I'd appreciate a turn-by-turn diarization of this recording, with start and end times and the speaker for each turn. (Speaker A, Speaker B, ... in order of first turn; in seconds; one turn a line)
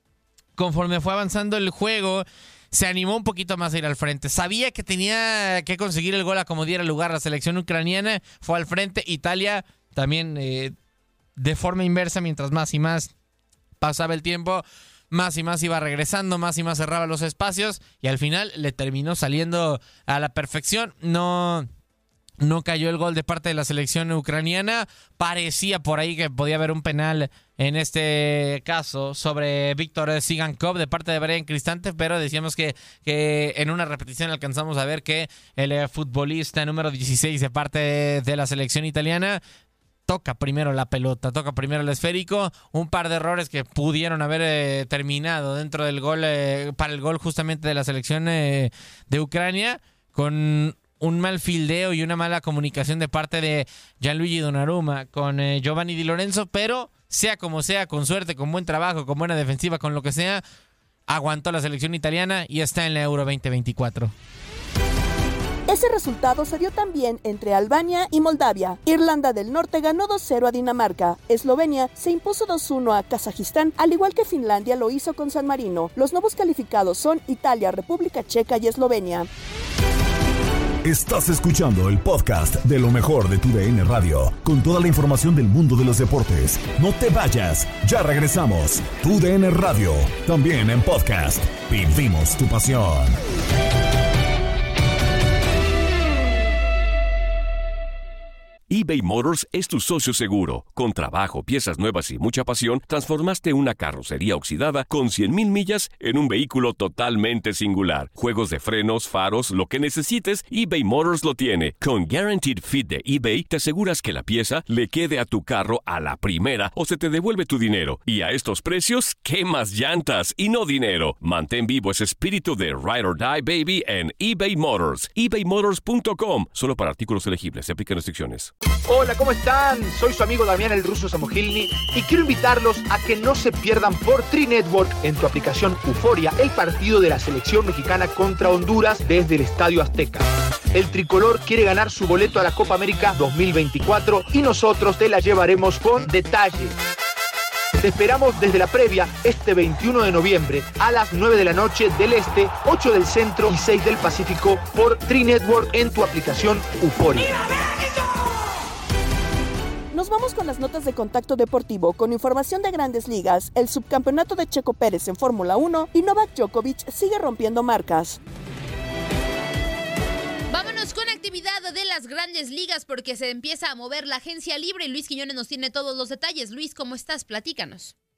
Speaker A: 0.6-10.7
Speaker A: 11.4-13.1
Speaker A: 13.8-21.7
Speaker A: 22.4-39.4
Speaker A: 40.1-60.4
Speaker A: 61.1-64.1
Speaker B: 65.7-79.3
Speaker C: 80.8-93.2
Speaker D: 98.7-128.5
Speaker E: 128.9-146.8
Speaker E: 147.8-157.4
Speaker B: 159.9-168.2
Speaker F: 170.5-177.9